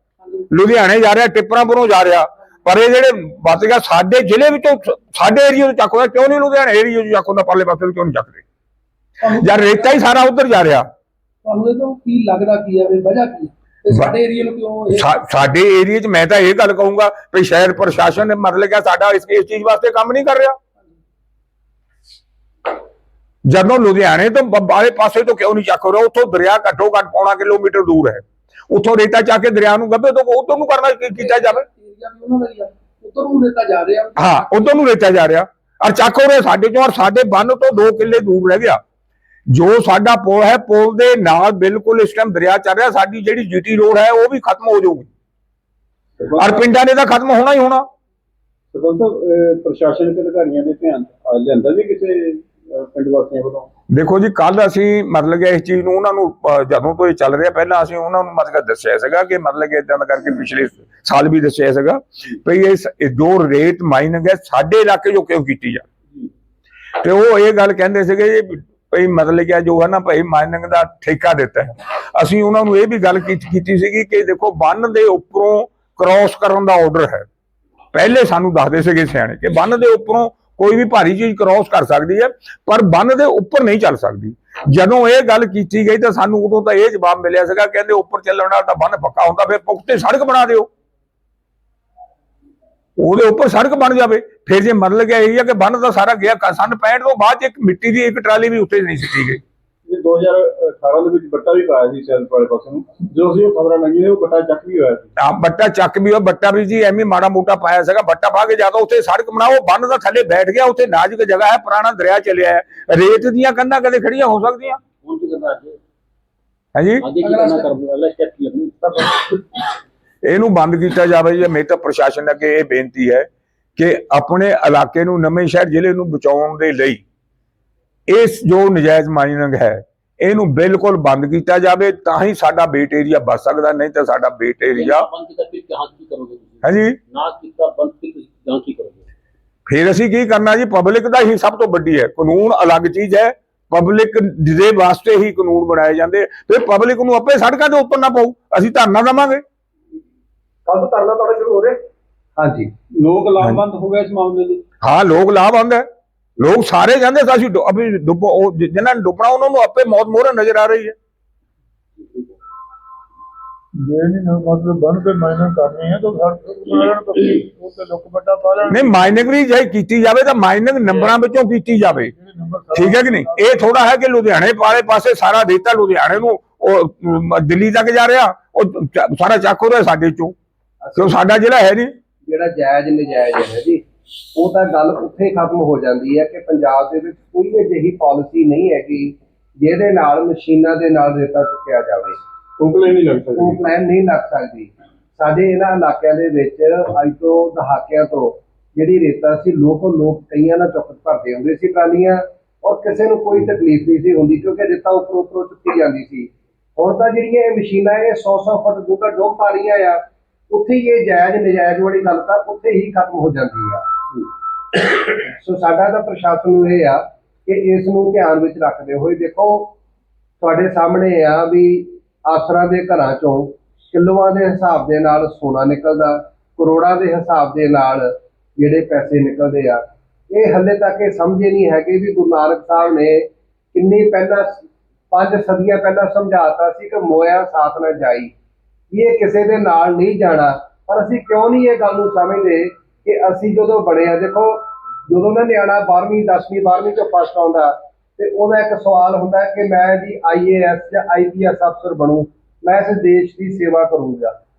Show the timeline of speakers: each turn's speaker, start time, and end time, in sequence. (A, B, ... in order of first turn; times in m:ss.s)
0:00.5-0:08.4 A
0:09.2-0:10.0 B
0:09.3-0:10.9 A
0:11.4-0:15.1 B
0:14.9-0:20.6 A
0:23.5-0:31.6 A
0:31.3-0:34.7 B
0:34.2-0:38.8 A
0:39.5-0:45.1 A
0:46.2-0:46.6 C
0:46.4-0:47.8 A
0:48.7-0:53.7 C
0:53.9-1:05.8 A
1:07.0-1:17.3 A
1:17.9-1:30.7 A
1:33.0-1:39.4 A
1:39.9-1:45.1 C
1:45.2-1:54.8 A
1:55.0-1:55.8 D
1:56.8-1:57.0 A
1:57.0-1:59.0 D
1:57.2-1:57.7 B
2:00.2-2:07.0 A
2:08.1-2:15.1 A
2:14.7-2:19.0 D
2:16.6-2:17.0 A
2:19.7-2:29.4 A
2:30.7-2:31.8 E
2:32.4-2:32.7 E
2:33.0-2:34.6 C
2:34.8-2:35.8 A
2:36.4-2:41.0 A
2:43.8-2:49.0 F
2:48.7-2:52.1 A
2:52.2-2:53.6 F
2:52.7-3:00.4 A
3:00.8-3:01.2 E
3:01.0-3:01.9 A
3:02.3-3:03.8 E
3:04.3-3:12.2 E
3:12.6-3:13.6 C
3:13.4-3:33.8 E
3:34.7-3:39.7 E
3:40.4-3:58.3 E
3:58.9-4:14.3 E